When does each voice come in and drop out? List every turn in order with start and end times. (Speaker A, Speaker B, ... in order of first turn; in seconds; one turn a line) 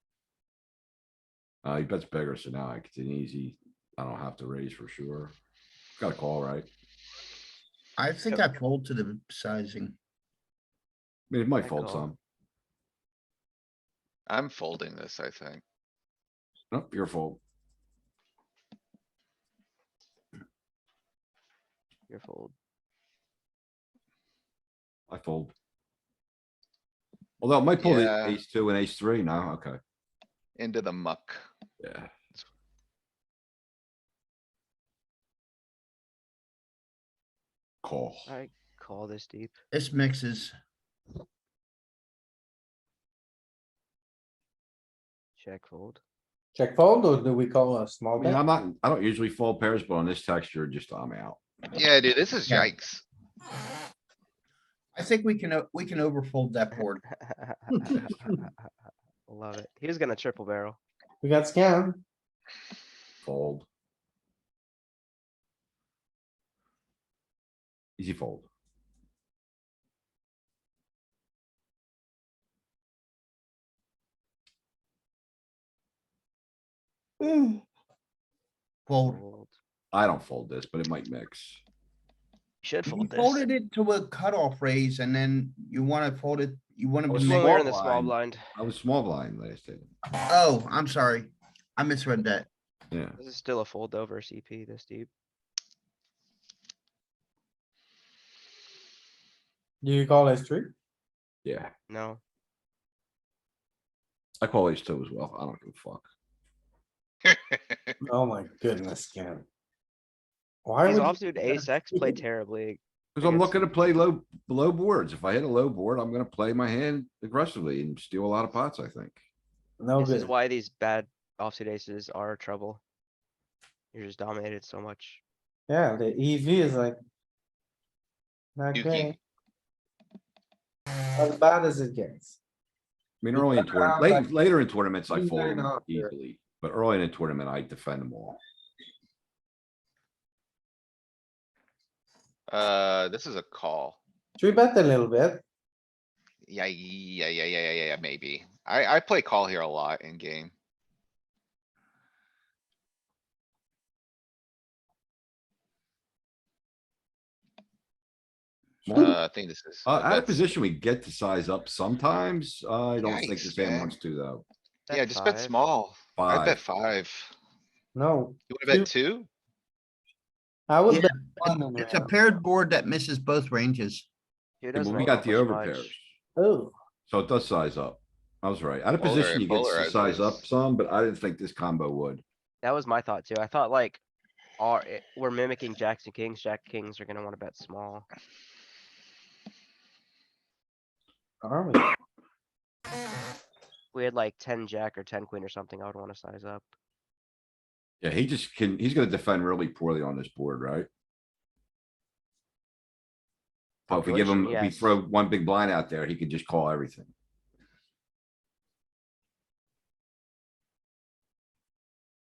Speaker A: 1.6-5.3
Speaker A: 6.0-6.7
Speaker B: 8.0-9.9
Speaker A: 11.3-12.2
Speaker C: 11.6-12.1
Speaker D: 14.3-15.6
Speaker A: 16.7-17.4
Speaker C: 22.1-22.5
Speaker A: 25.1-25.5
Speaker A: 27.4-29.8
Speaker D: 27.8-28.4
Speaker D: 30.6-31.4
Speaker A: 31.8-32.1
Speaker A: 37.8-38.3
Speaker C: 38.3-39.5
Speaker B: 39.7-40.5
Speaker C: 45.4-46.0
Speaker E: 46.5-48.4
Speaker A: 48.1-51.8
Speaker D: 51.7-53.0
Speaker B: 54.9-57.0
Speaker C: 56.8-60.8
Speaker E: 61.2-62.0
Speaker A: 63.2-63.6
Speaker A: 68.0-68.5
Speaker B: 77.2-77.6
Speaker B: 78.9-79.2
Speaker C: 79.0-79.5
Speaker A: 79.9-81.6
Speaker C: 82.6-83.5
Speaker B: 82.8-87.6
Speaker A: 87.1-89.9
Speaker C: 87.2-88.5
Speaker B: 90.3-92.5
Speaker A: 92.9-93.2
Speaker C: 93.2-95.1
Speaker E: 99.8-100.7
Speaker A: 101.4-101.7
Speaker C: 101.9-102.2
Speaker A: 104.4-106.0
Speaker D: 107.2-107.9
Speaker E: 108.0-109.5
Speaker E: 110.6-112.2
Speaker C: 110.8-113.7
Speaker A: 113.2-119.2
Speaker E: 119.8-120.3
Speaker C: 120.0-122.8
Speaker C: 123.9-125.2
Speaker E: 125.7-127.0
Speaker E: 128.6-129.1
Speaker D: 128.7-129.2
Speaker E: 131.2-132.4
Speaker A: 133.2-138.4
Speaker E: 133.3-134.3
Speaker E: 135.1-136.1
Speaker D: 142.5-144.0
Speaker E: 144.4-145.4
Speaker D: 146.5-150.5
Speaker A: 158.8-159.2
Speaker D: 158.9-160.5
Speaker A: 159.8-164.4
Speaker D: 163.0-163.9
Speaker C: 164.9-165.6
Speaker D: 164.9-167.3
Speaker A: 166.2-166.6
Speaker E: 167.9-168.9
Speaker D: 168.5-169.3
Speaker E: 170.7-172.1
Speaker B: 170.9-174.1
Speaker C: 174.6-175.9
Speaker A: 174.7-176.1
Speaker E: 176.3-176.7
Speaker A: 177.1-182.2
Speaker D: 179.0-180.4
Speaker C: 182.6-184.0
Speaker C: 184.6-188.1
Speaker E: 191.4-191.9
Speaker C: 193.9-196.7
Speaker A: 198.0-200.9
Speaker A: 203.9-207.1
Speaker C: 203.9-204.9
Speaker D: 204.2-204.6